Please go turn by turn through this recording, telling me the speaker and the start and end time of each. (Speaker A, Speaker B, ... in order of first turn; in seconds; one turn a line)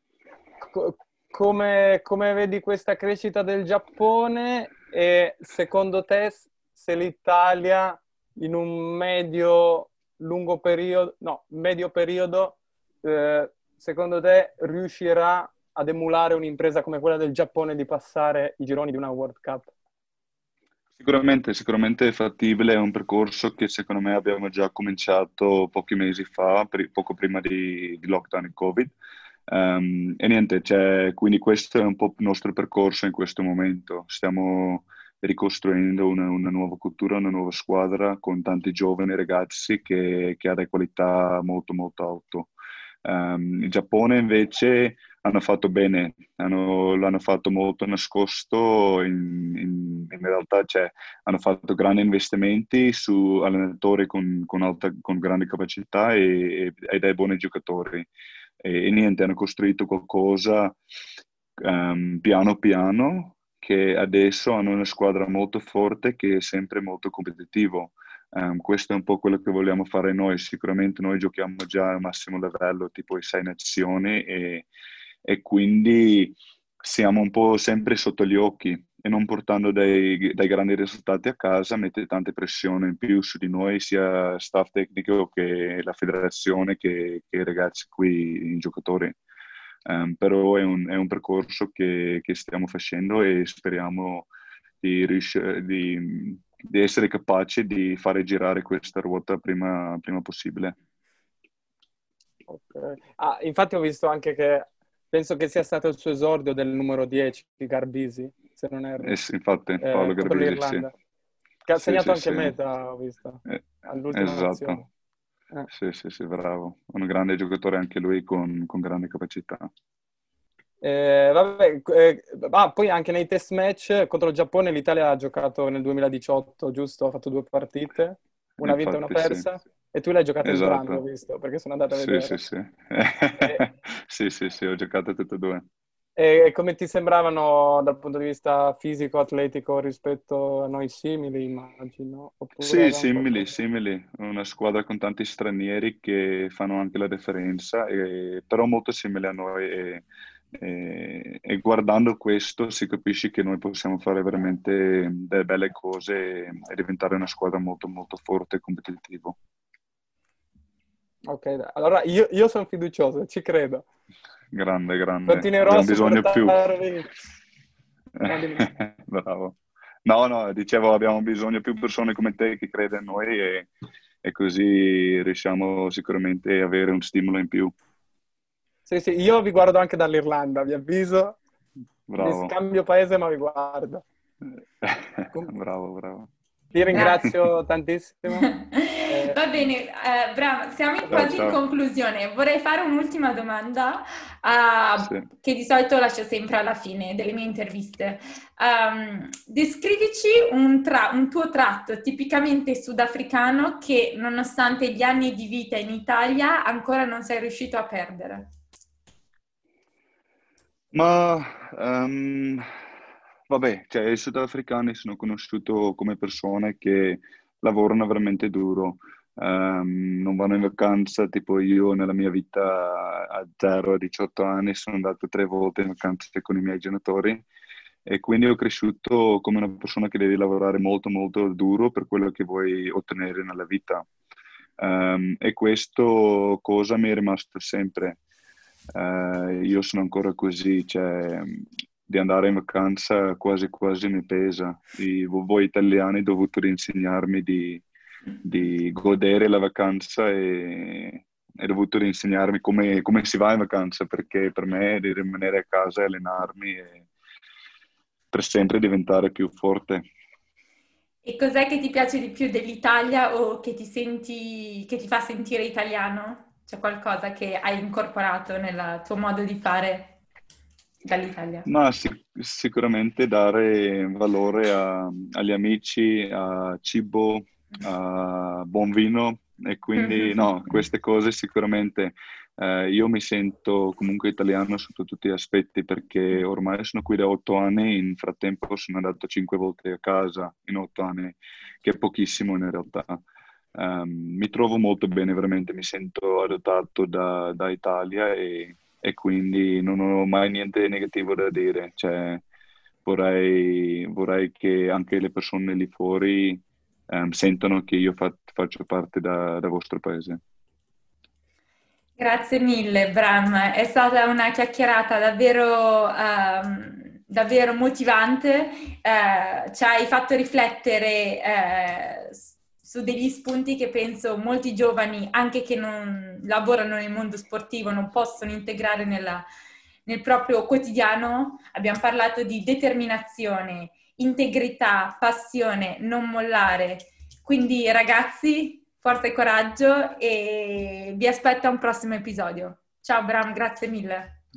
Speaker A: 0.6-19.7
Speaker B: 20.9-28.9
Speaker B: 29.5-42.5
Speaker B: 43.0-58.1
Speaker B: 58.6-60.8
Speaker B: 61.6-74.7
Speaker B: 75.2-89.2
Speaker B: 89.9-94.3
Speaker B: 94.8-100.7
Speaker A: 102.5-109.1
Speaker B: 109.0-110.9
Speaker A: 109.8-110.9
Speaker A: 111.7-114.8
Speaker B: 111.8-112.5
Speaker B: 113.5-114.8
Speaker B: 115.7-119.7
Speaker A: 120.8-132.4
Speaker B: 128.6-129.4
Speaker B: 130.4-131.0
Speaker B: 131.9-135.6
Speaker A: 136.2-143.5
Speaker B: 142.6-159.4
Speaker A: 161.3-163.8
Speaker B: 164.5-166.6
Speaker A: 165.3-167.1
Speaker B: 168.2-173.7
Speaker A: 168.2-168.7
Speaker B: 174.2-177.7
Speaker A: 178.8-181.4
Speaker B: 182.1-182.5
Speaker A: 182.2-184.0
Speaker B: 184.8-186.3
Speaker A: 186.7-188.5
Speaker B: 186.9-187.3
Speaker C: 186.9-187.2
Speaker C: 188.3-208.5
Speaker A: 189.1-189.4
Speaker A: 191.1-191.4
Speaker B: 191.1-191.6
Speaker B: 210.9-212.7
Speaker B: 213.5-227.4
Speaker B: 228.1-234.1
Speaker B: 234.8-238.2
Speaker B: 238.9-247.8
Speaker B: 248.4-257.1
Speaker B: 258.3-260.1
Speaker C: 261.2-270.2
Speaker C: 271.0-271.7
Speaker B: 271.6-293.2
Speaker C: 280.0-280.8
Speaker B: 293.7-302.4
Speaker B: 303.0-310.4
Speaker C: 312.2-329.4
Speaker C: 330.1-344.4